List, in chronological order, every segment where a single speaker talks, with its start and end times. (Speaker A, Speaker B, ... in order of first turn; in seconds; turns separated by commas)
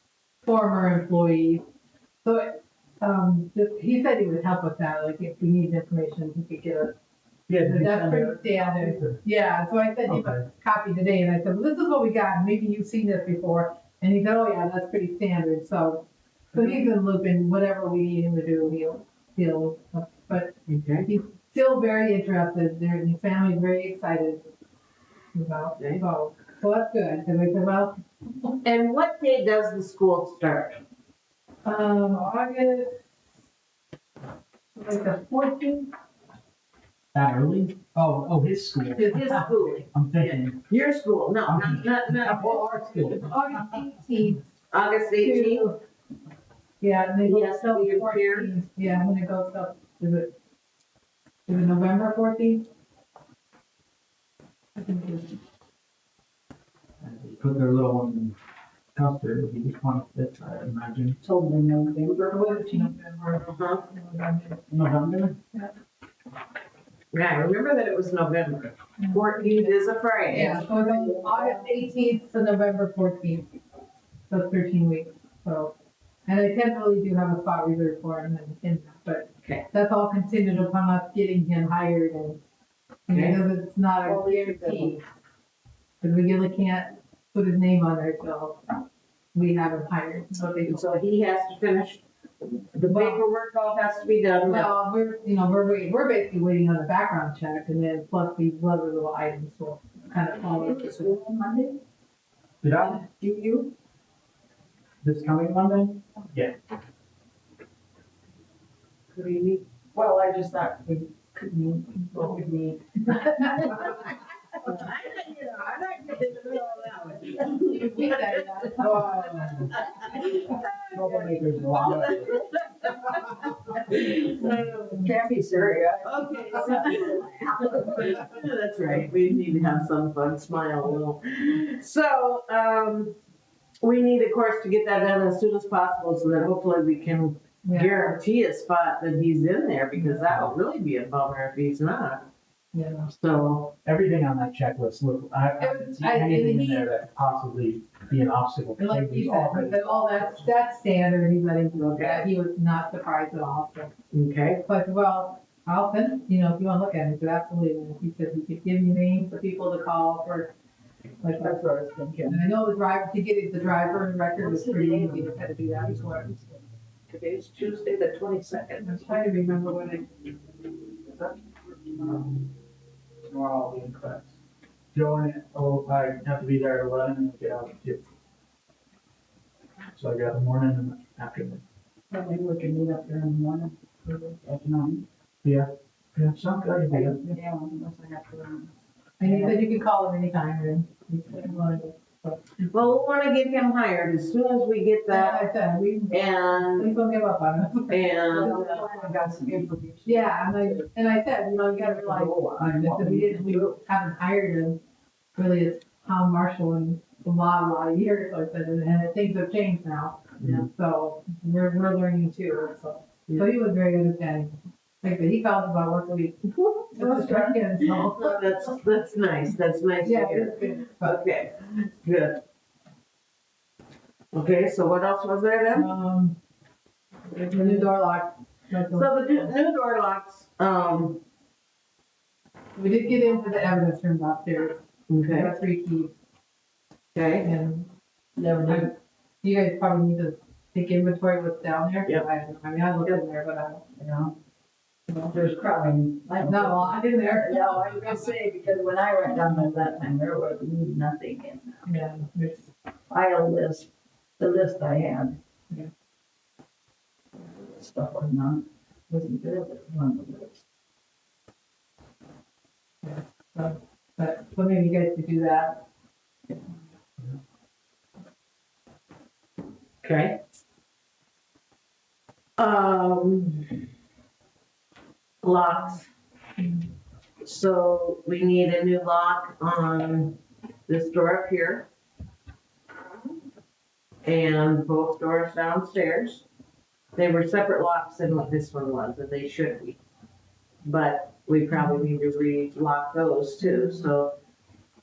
Speaker A: 0.4-1.6, Speaker A: 2.2-7.0, Speaker B: 7.5-9.2, Speaker A: 7.6-24.4, Speaker B: 10.1-10.5, Speaker C: 20.7-21.1, Speaker A: 25.3-28.6, Speaker C: 25.8-26.0, Speaker C: 28.6-30.8, Speaker A: 31.6-33.0, Speaker A: 34.8-35.9, Speaker B: 37.1-40.6, Speaker C: 39.0-42.5, Speaker B: 41.5-43.3, Speaker A: 42.9-44.5, Speaker C: 44.7-45.7, Speaker A: 45.2-45.8, Speaker A: 46.8-50.3, Speaker C: 47.2-48.5, Speaker A: 51.5-52.6, Speaker A: 54.8-55.4, Speaker B: 57.0-58.4, Speaker B: 58.9-61.2, Speaker D: 61.2-62.9, Speaker A: 62.2-64.6, Speaker C: 63.4-63.8, Speaker B: 64.7-65.3, Speaker C: 67.1-70.7, Speaker A: 69.0-69.7, Speaker A: 70.3-73.5, Speaker D: 70.4-71.6, Speaker A: 74.3-75.7, Speaker A: 76.2-82.4, Speaker A: 83.1-85.0, Speaker C: 83.1-83.4, Speaker D: 84.0-84.9, Speaker A: 86.0-88.6, Speaker A: 89.3-91.0, Speaker C: 90.6-94.7, Speaker A: 92.9-93.2, Speaker A: 94.4-101.1, Speaker D: 100.5-101.8, Speaker B: 102.6-103.0, Speaker D: 102.9-103.7, Speaker B: 105.0-106.5, Speaker C: 109.1-109.6, Speaker D: 109.9-114.0, Speaker C: 114.6-133.2, Speaker A: 117.5-120.4, Speaker B: 118.8-119.7, Speaker B: 120.9-122.5, Speaker D: 124.9-127.8, Speaker C: 133.8-142.3, Speaker A: 137.7-138.2, Speaker A: 142.7-143.1, Speaker C: 143.1-143.8, Speaker B: 143.8-150.4, Speaker A: 145.6-146.9, Speaker A: 148.8-153.9, Speaker C: 151.8-152.3, Speaker C: 154.1-154.6, Speaker A: 154.6-160.5, Speaker A: 161.2-161.6, Speaker D: 161.4-162.4, Speaker A: 162.3-166.6, Speaker D: 164.4-165.3, Speaker C: 167.1-168.9, Speaker A: 168.8-170.1, Speaker B: 171.1-172.5, Speaker B: 173.2-174.3, Speaker B: 174.9-178.0, Speaker B: 179.9-181.6, Speaker D: 182.1-185.1, Speaker B: 185.4-187.3, Speaker D: 186.9-189.7, Speaker A: 189.2-192.9, Speaker C: 192.7-195.5, Speaker A: 195.1-198.7, Speaker C: 196.1-196.9, Speaker C: 197.9-198.9, Speaker D: 198.3-200.9, Speaker A: 200.1-204.8, Speaker D: 201.5-203.8, Speaker A: 205.4-218.6, Speaker C: 216.5-222.4, Speaker A: 220.0-221.2, Speaker C: 224.3-225.9, Speaker A: 225.7-226.4, Speaker C: 227.4-227.9, Speaker A: 227.5-229.5, Speaker C: 228.9-231.2, Speaker A: 232.8-236.1, Speaker C: 235.1-235.6, Speaker C: 237.2-237.5, Speaker A: 237.4-237.9, Speaker D: 238.4-238.9, Speaker A: 238.7-243.8, Speaker D: 244.0-244.4, Speaker D: 245.3-251.8, Speaker A: 246.4-247.8, Speaker A: 251.9-252.7, Speaker D: 253.1-253.9, Speaker D: 254.4-255.4, Speaker D: 257.6-260.6, Speaker A: 263.0-265.8, Speaker C: 270.0-270.4, Speaker C: 272.6-273.9, Speaker C: 275.4-276.1, Speaker C: 277.4-281.9, Speaker C: 284.2-286.4, Speaker C: 287.1-290.0, Speaker C: 290.8-294.4, Speaker A: 291.7-292.0, Speaker A: 293.6-294.1